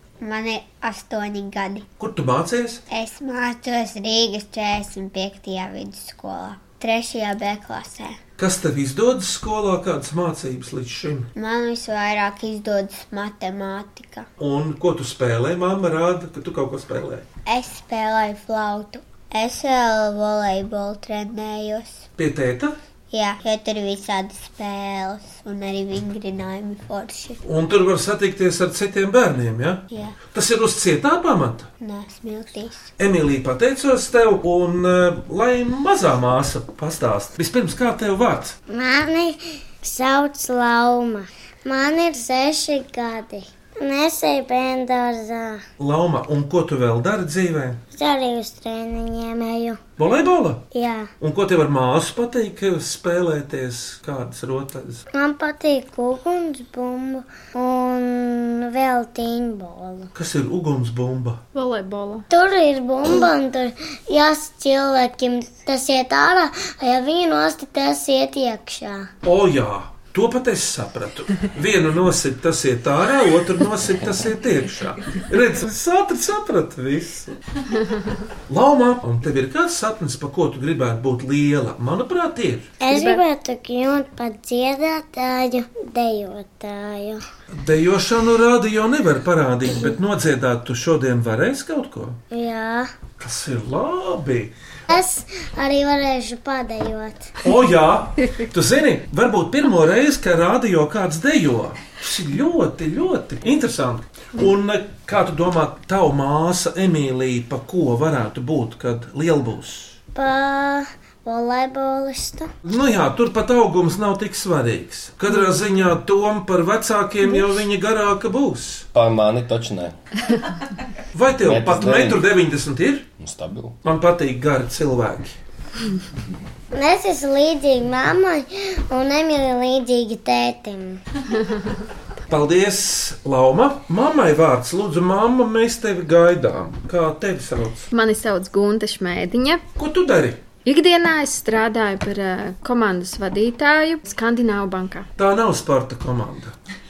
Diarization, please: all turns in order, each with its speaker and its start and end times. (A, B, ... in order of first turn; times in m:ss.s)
0:00.2-0:01.8 A
0:02.0-0:02.8 B
0:02.9-0:08.2 A
0:08.4-0:11.3 B
0:11.4-0:14.3 A
0:14.4-0:17.2 B
0:17.5-0:22.0 A
0:22.2-0:22.8 B
0:23.1-0:27.4 A
0:27.4-0:31.7 B
0:29.9-0:30.2 A
0:31.8-0:32.9 A
0:33.0-0:38.6 B
0:38.7-0:45.6 C
0:45.8-0:47.8 B
0:47.9-0:49.8 C
0:50.0-0:50.7 B
0:50.7-0:51.1 C
0:51.2-0:55.0 B
0:55.1-1:00.1 C
1:00.2-1:01.4 B
1:01.5-1:02.3 D
1:02.3-1:09.1 C
1:09.2-1:17.4 B
1:18.5-1:22.7 B
1:22.8-1:27.2 C
1:22.9-1:23.2 D
1:27.5-1:32.2 B
1:32.3-1:32.9 C
1:33.2-1:34.5 B
1:34.9-1:37.3 C
1:37.4-1:50.0 B
1:50.2-1:52.5 C
1:52.6-1:58.9 B
1:59.0-2:00.0 E
2:01.1-2:03.1 B
2:01.4-2:02.2 E
2:03.2-2:03.8 E
2:03.8-2:05.4 B
2:06.7-2:11.0 C
2:12.3-2:17.9 B
2:17.9-2:19.6 D
2:19.8-2:20.4 B
2:20.6-2:25.1 D
2:25.2-2:26.6 B